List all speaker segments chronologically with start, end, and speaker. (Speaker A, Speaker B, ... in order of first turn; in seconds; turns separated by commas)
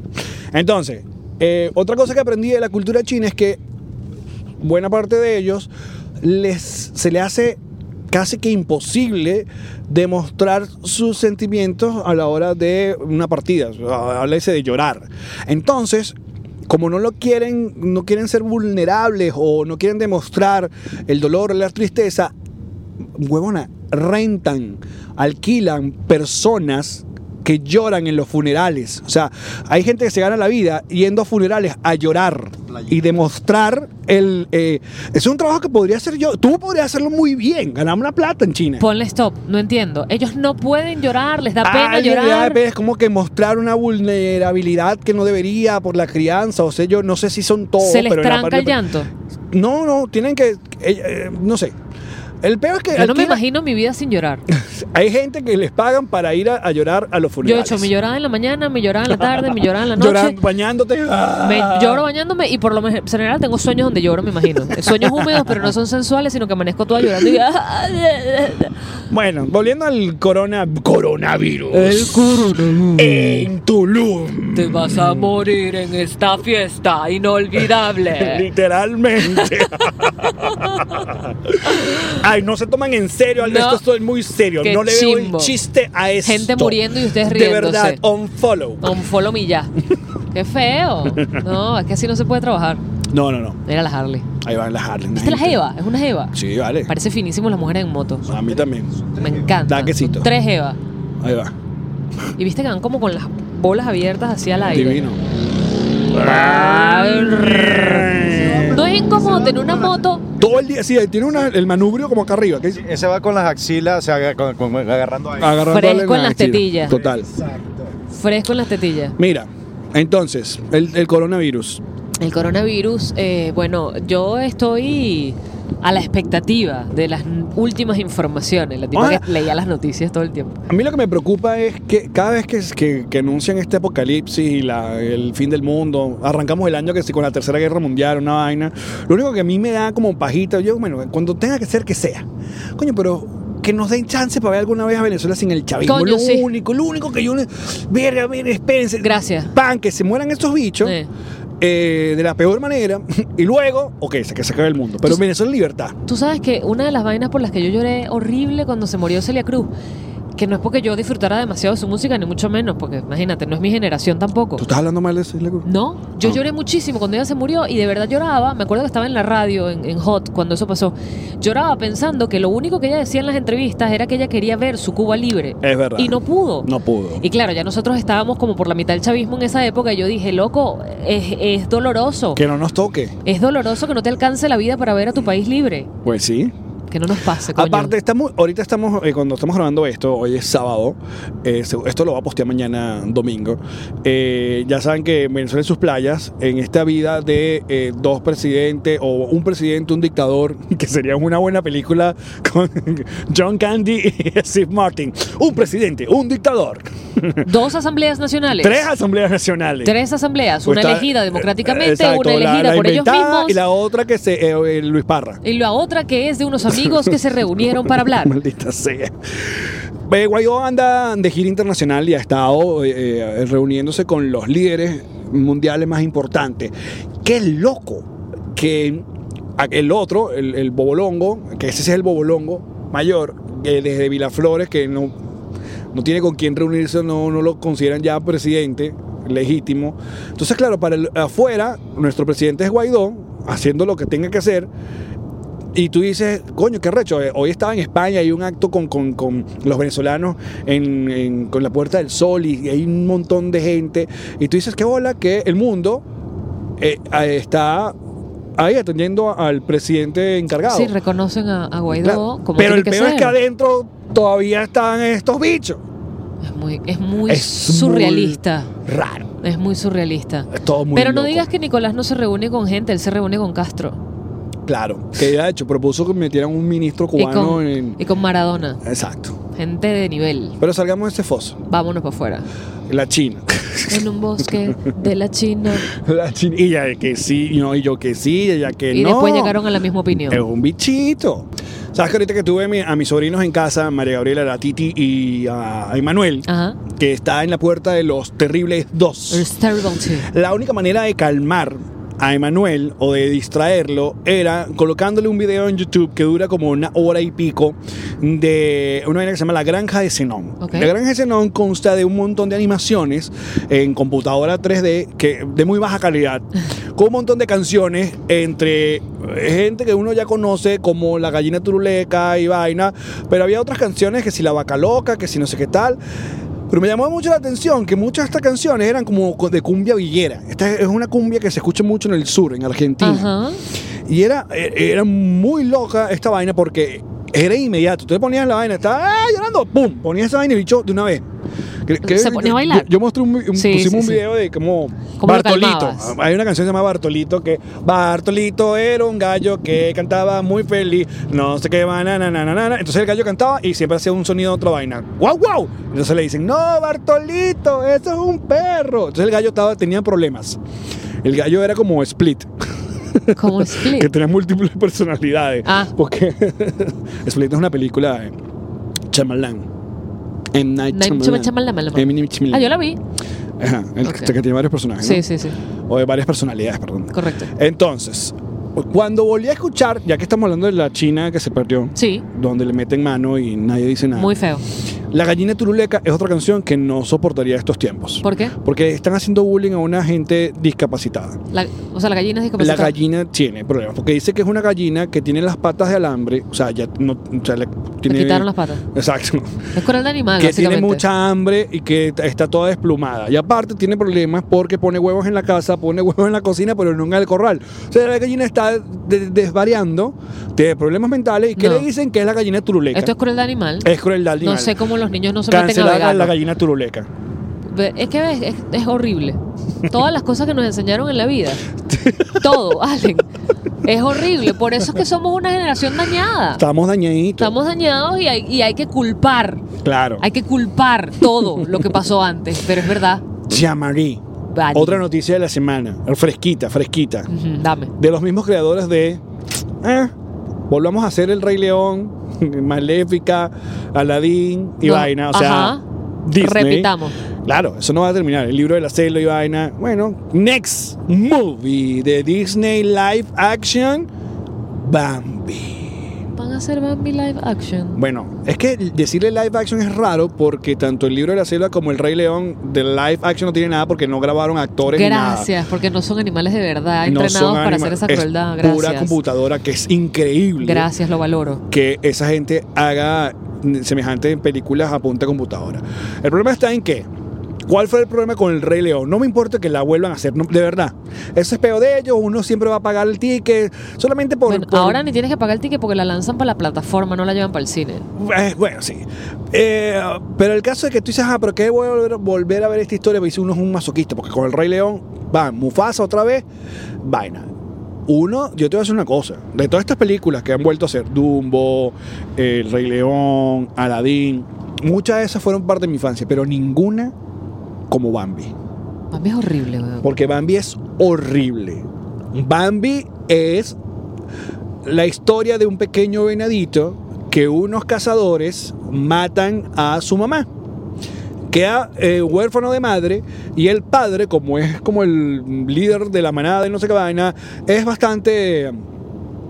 Speaker A: 0.5-3.6, Speaker A: 4.6-5.7, Speaker A: 6.2-7.6, Speaker A: 8.1-16.1, Speaker A: 16.7-22.3, Speaker A: 23.1-38.9, Speaker B: 38.8-42.6, Speaker A: 41.6-48.8, Speaker B: 47.8-49.1, Speaker A: 49.5-51.8, Speaker A: 52.4-53.4, Speaker B: 52.9-54.4, Speaker A: 54.5-57.9, Speaker B: 57.4-60.4, Speaker A: 59.1-62.0, Speaker B: 61.4-68.7, Speaker A: 64.7-65.7, Speaker A: 69.1-72.3, Speaker B: 71.7-73.5, Speaker A: 73.0-75.3, Speaker B: 74.5-78.5, Speaker A: 78.2-89.0, Speaker B: 79.2-81.1, Speaker B: 81.7-82.2, Speaker B: 83.4-83.8, Speaker B: 84.6-85.5, Speaker B: 86.2-88.0, Speaker B: 88.8-89.7, Speaker B: 90.3-92.8, Speaker A: 93.1-93.6, Speaker B: 93.7-94.3, Speaker A: 94.4-95.6, Speaker B: 95.2-96.4, Speaker A: 96.3-96.9, Speaker B: 96.9-98.3, Speaker A: 98.3-99.0, Speaker B: 99.2-100.8, Speaker A: 99.6-100.3, Speaker A: 101.2-101.5, Speaker B: 102.4-105.0, Speaker A: 104.7-105.2, Speaker A: 106.1-108.8, Speaker B: 106.1-108.1, Speaker C: 108.3-110.0, Speaker B: 108.7-110.2, Speaker A: 110.4-112.8, Speaker C: 112.7-115.7, Speaker A: 115.4-117.3, Speaker B: 115.7-117.0, Speaker C: 116.9-117.9, Speaker B: 118.1-119.2, Speaker A: 119.2-121.8, Speaker B: 122.2-130.6, Speaker A: 128.9-129.3, Speaker A: 130.7-151.0, Speaker B: 145.8-146.5, Speaker B: 149.0-149.5, Speaker B: 150.8-151.1, Speaker A: 151.6-156.0, Speaker B: 156.1-159.7, Speaker B: 160.4-164.6, Speaker A: 164.6-165.7, Speaker B: 165.7-176.7, Speaker A: 175.6-177.2, Speaker B: 177.2-182.4, Speaker A: 182.3-183.2, Speaker B: 183.2-185.9, Speaker A: 186.0-186.5, Speaker B: 186.9-187.9, Speaker A: 187.5-207.5, Speaker B: 207.4-208.8, Speaker A: 208.6-209.9, Speaker B: 209.8-213.6, Speaker A: 210.7-215.4, Speaker B: 215.4-218.4, Speaker A: 216.7-217.2, Speaker A: 217.8-226.7, Speaker A: 227.2-229.1, Speaker A: 229.6-235.1, Speaker A: 235.9-244.7, Speaker A: 245.7-256.0, Speaker A: 256.8-257.9, Speaker A: 258.6-260.9, Speaker B: 260.6-263.4, Speaker A: 261.9-265.8, Speaker B: 266.4-268.7, Speaker A: 267.3-269.3, Speaker B: 269.4-274.0, Speaker A: 270.5-271.5, Speaker A: 274.7-278.0, Speaker B: 277.2-278.8, Speaker A: 278.8-279.4, Speaker B: 279.6-280.6, Speaker A: 280.6-281.6, Speaker B: 281.7-282.5, Speaker A: 282.9-284.8, Speaker B: 283.9-285.9, Speaker A: 285.9-289.6, Speaker B: 288.9-290.4, Speaker A: 290.3-299.5, Speaker B: 296.5-296.8, Speaker B: 299.3-300.3, Speaker A: 300.2-326.0, Speaker B: 310.6-310.9, Speaker A: 326.7-333.3, Speaker B: 333.0-333.6, Speaker A: 334.1-341.2, Speaker A: 341.9-360.6, Speaker B: 342.0-342.9, Speaker B: 343.5-344.2, Speaker B: 345.2-346.1, Speaker A: 361.2-362.5, Speaker A: 363.1-368.4, Speaker B: 363.4-364.1, Speaker B: 365.6-365.9, Speaker A: 369.1-369.7, Speaker A: 370.5-372.7, Speaker B: 370.9-373.0, Speaker A: 373.6-375.3, Speaker B: 374.0-374.3, Speaker B: 375.0-375.6, Speaker A: 375.9-384.3, Speaker B: 377.1-377.5, Speaker B: 381.9-382.2, Speaker B: 384.1-384.6, Speaker A: 385.1-391.4, Speaker B: 388.2-388.6, Speaker B: 391.5-392.9, Speaker A: 392.6-399.7, Speaker B: 398.1-398.8, Speaker B: 399.8-401.0, Speaker A: 400.4-413.1, Speaker B: 411.6-411.9, Speaker B: 412.9-413.9, Speaker A: 413.8-414.8, Speaker B: 414.4-416.3, Speaker A: 415.5-417.1, Speaker B: 417.7-421.7, Speaker A: 421.8-422.7, Speaker B: 422.4-423.3, Speaker B: 423.8-426.6, Speaker A: 426.6-427.6, Speaker B: 427.4-429.6, Speaker A: 429.8-430.2, Speaker B: 430.2-433.2, Speaker A: 431.4-431.9, Speaker A: 433.4-434.2, Speaker B: 434.5-435.0, Speaker A: 434.7-437.3, Speaker B: 437.3-437.9, Speaker A: 438.0-439.2, Speaker A: 439.8-440.1, Speaker A: 440.7-454.1, Speaker B: 444.8-445.8, Speaker B: 446.4-447.2, Speaker A: 454.8-456.1, Speaker B: 456.4-458.0, Speaker A: 458.0-465.5, Speaker B: 464.9-469.2, Speaker A: 467.1-470.9, Speaker B: 470.6-471.6, Speaker A: 471.7-477.1, Speaker A: 477.7-485.0, Speaker B: 484.5-488.1, Speaker A: 488.2-496.5, Speaker A: 497.0-497.5, Speaker A: 498.1-507.1, Speaker A: 507.9-508.5, Speaker B: 509.1-510.1, Speaker A: 510.0-513.8, Speaker A: 514.8-520.5, Speaker A: 521.5-528.8